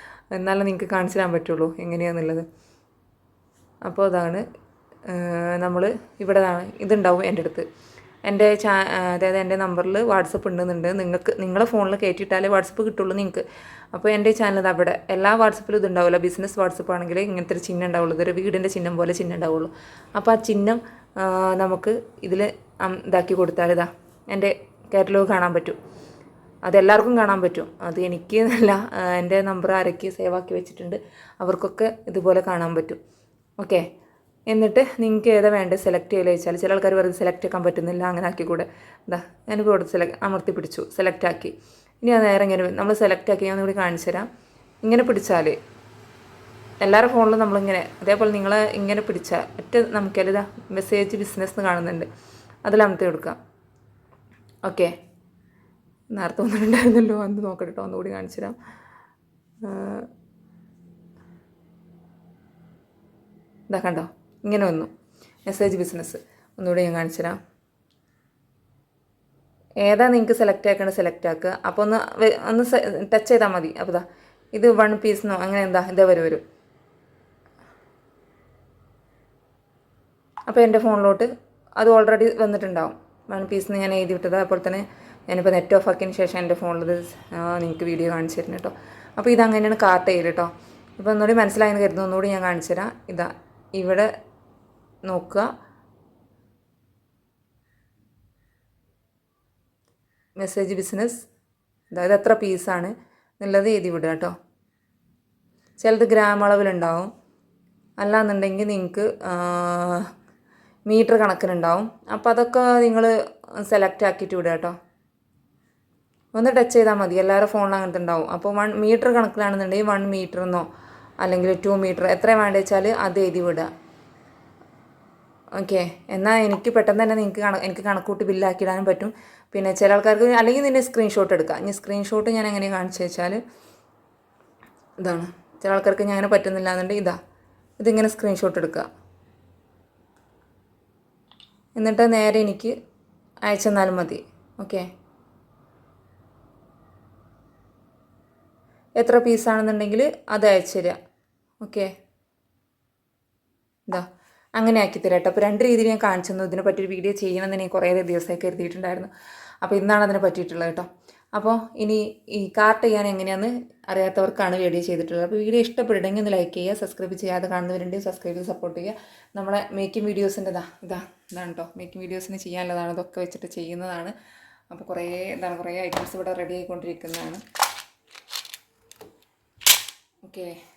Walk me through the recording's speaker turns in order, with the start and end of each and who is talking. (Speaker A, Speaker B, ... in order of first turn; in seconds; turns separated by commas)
Speaker A: 0.3-2.5, Speaker A: 3.8-4.4, Speaker A: 5.1-7.7, Speaker A: 8.2-25.8, Speaker A: 26.6-33.0, Speaker A: 33.6-33.9, Speaker A: 34.5-44.3, Speaker A: 44.8-45.6, Speaker A: 46.8-52.1, Speaker A: 52.6-53.4, Speaker A: 54.6-54.9, Speaker A: 56.1-58.6, Speaker A: 59.6-60.1, Speaker A: 63.7-64.9, Speaker A: 65.5-67.4, Speaker A: 69.8-76.4, Speaker A: 80.5-94.1, Speaker A: 95.1-95.5, Speaker A: 100.4-101.3, Speaker A: 101.9-104.3, Speaker A: 105.8-107.1, Speaker A: 108.0-110.1, Speaker A: 110.9-114.8, Speaker A: 116.3-120.7, Speaker A: 121.2-123.7, Speaker A: 125.6-133.4, Speaker A: 135.0-137.2, Speaker A: 137.8-138.9, Speaker A: 141.8-142.8, Speaker A: 143.5-144.8, Speaker A: 149.0-151.0, Speaker A: 151.6-151.9, Speaker A: 154.6-159.1, Speaker A: 159.6-174.1, Speaker A: 174.7-177.4, Speaker A: 180.2-180.6